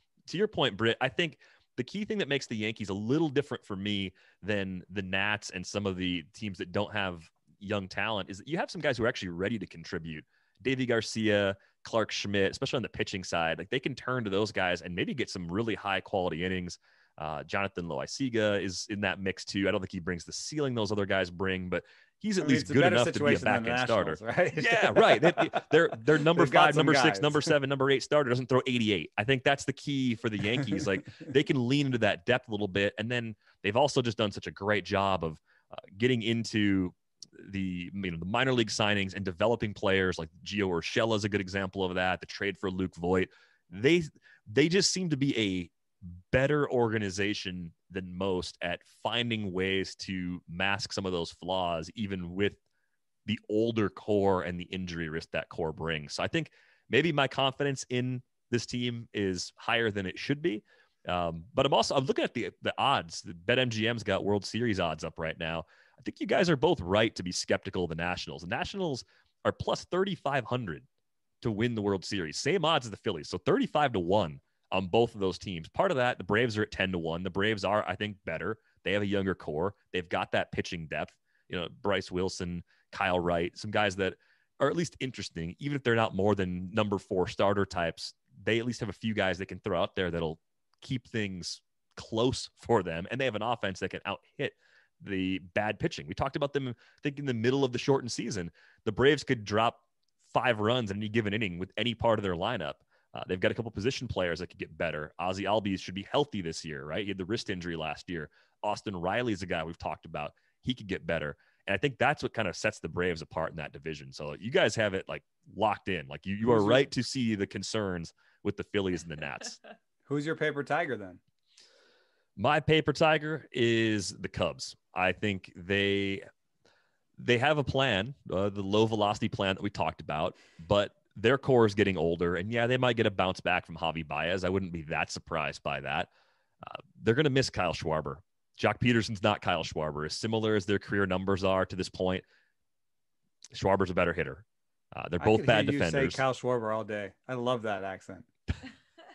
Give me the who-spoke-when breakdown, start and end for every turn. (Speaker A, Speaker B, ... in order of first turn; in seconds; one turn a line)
Speaker A: 0.2-52.6
Speaker B: 22.4-27.5
Speaker A: 53.2-70.8
Speaker A: 71.4-119.6
Speaker B: 116.4-116.9
Speaker B: 120.0-121.2
Speaker A: 122.4-126.3
Speaker A: 127.2-136.1
Speaker A: 136.6-142.2
Speaker A: 143.5-146.2
Speaker B: 145.2-148.3